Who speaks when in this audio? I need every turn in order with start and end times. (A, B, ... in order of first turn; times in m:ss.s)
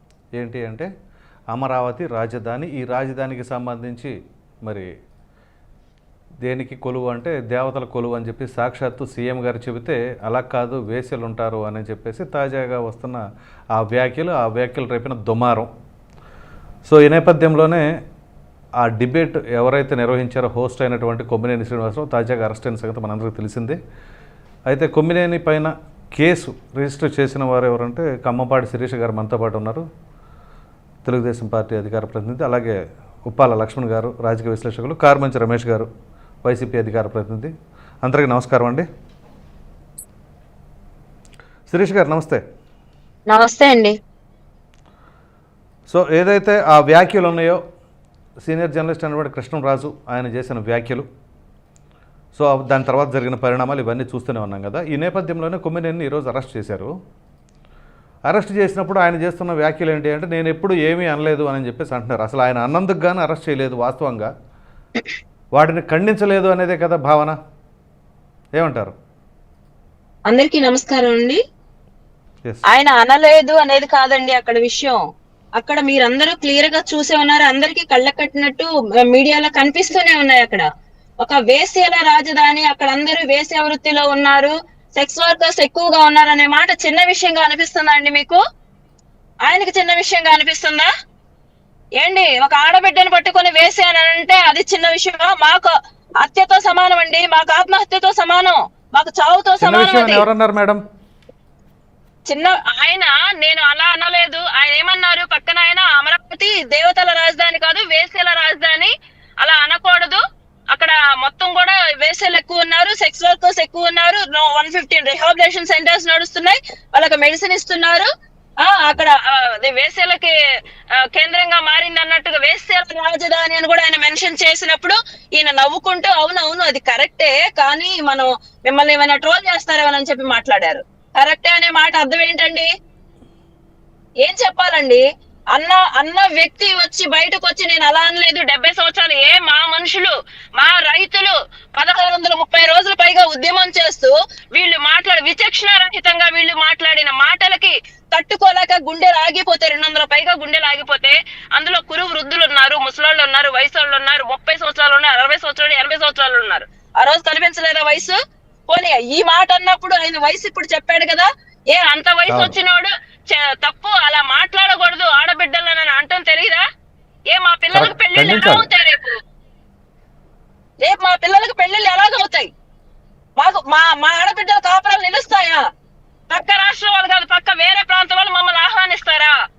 0:00.4-0:00.9 A
0:01.5-0:04.1 A
0:06.4-0:13.2 A
0:13.8-0:15.7 A
0:16.9-0:17.8 A
0:18.8-0:23.8 A
0:24.7-0:29.8 A
0:31.0-0:32.8 A
0:33.3-0:35.9 A
0:36.4-0:37.5 A
0:38.0-0:38.9 A
0:41.7-0:42.4 A
0:43.3-0:44.0 B
0:45.9-0:47.6 A
0:48.4-0:51.0 A
0:52.3-0:56.9 A
0:58.3-1:04.3 A
1:05.6-1:07.4 A
1:08.6-1:08.9 A
1:10.3-1:11.4 B
1:12.7-1:15.0 B
1:15.6-1:20.6 B
1:21.2-1:28.4 B
1:29.4-1:30.9 B
1:32.0-1:40.2 B
1:39.6-1:40.8 A
1:42.3-1:58.1 B
1:58.6-2:00.3 B
2:01.1-2:12.7 B
2:14.2-2:15.0 B
2:15.5-2:38.2 B
2:38.7-2:46.6 B
2:42.3-2:42.6 A
2:47.3-2:49.1 B
2:47.7-2:48.6 A
2:50.8-2:52.5 B
2:53.4-2:55.6 B
2:56.3-2:59.3 B